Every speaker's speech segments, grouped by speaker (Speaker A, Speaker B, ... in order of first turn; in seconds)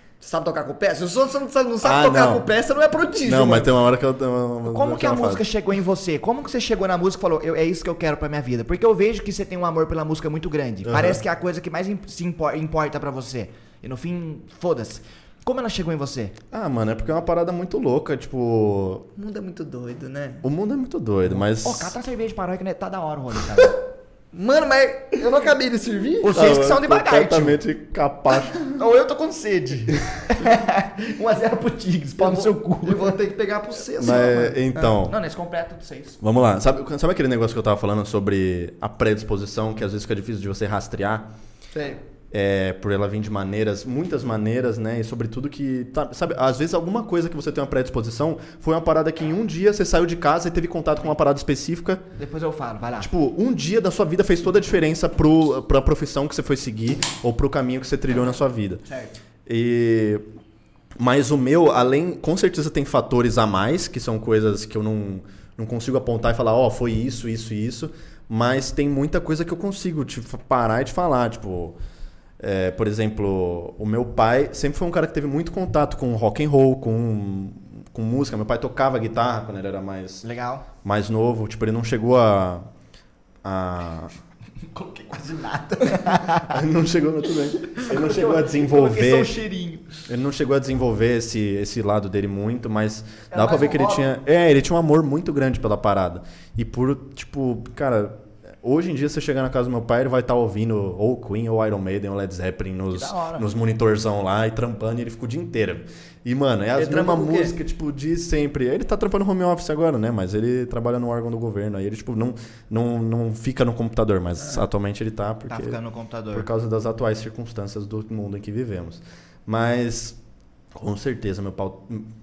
Speaker A: 0.2-3.7, 19.2-20.4, 24.3-26.4, 32.2-34.9, 41.7-42.0, 106.8-107.6
Speaker B: 1.8-2.5, 3.2-5.5, 10.8-11.2, 16.5-19.1, 20.4-22.0, 26.3-28.8, 34.0-35.2, 36.2-41.3, 42.3-52.1, 53.0-58.9, 59.5-60.3, 61.0-71.8, 72.4-80.2, 80.8-82.7, 83.4-84.1, 86.5-89.3, 90.1-115.8, 116.3-120.2, 120.7-122.1
Speaker C: 4.7-16.4, 21.3-23.8, 26.2-27.6, 28.7-33.1, 34.9-36.2, 52.2-53.1, 58.9-59.2, 80.2-80.7, 84.7-86.6, 87.7-90.0, 93.3-94.0, 102.9-103.5, 115.5-116.5